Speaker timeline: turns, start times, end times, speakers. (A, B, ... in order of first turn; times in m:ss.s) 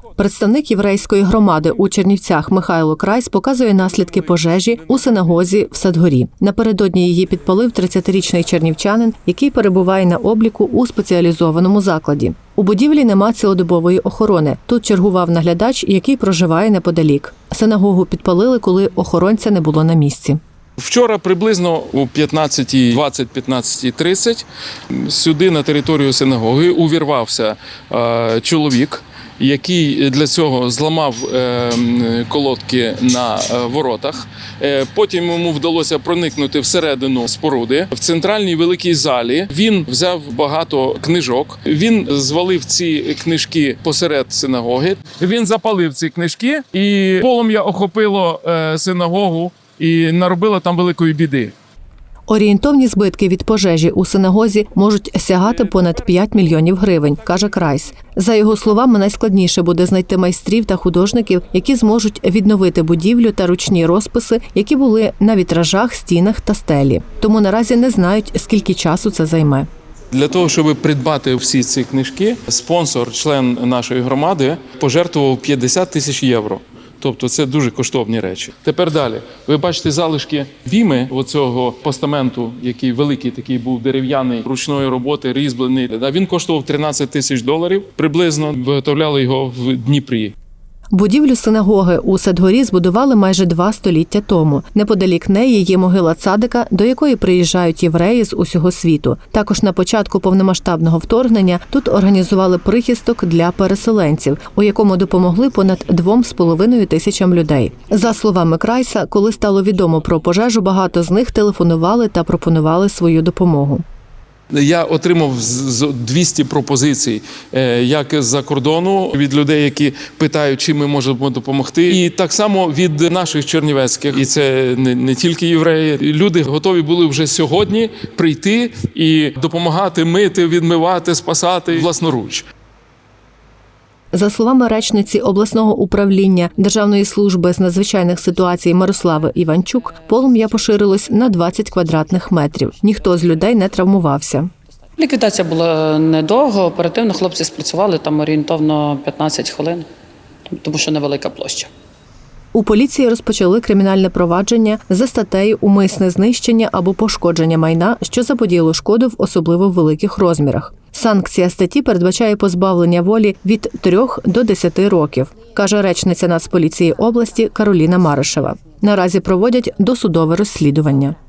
0:00.2-0:20.4 A
0:20.8-0:51.5 B
0:52.3-1:09.7 A
1:10.1-1:30.3 B
1:30.9-1:53.8 A
1:54.5-2:12.4 B
2:14.1-2:24.5 A
2:25.0-2:29.9 C
2:30.5-2:31.7 C
2:32.5-2:51.2 A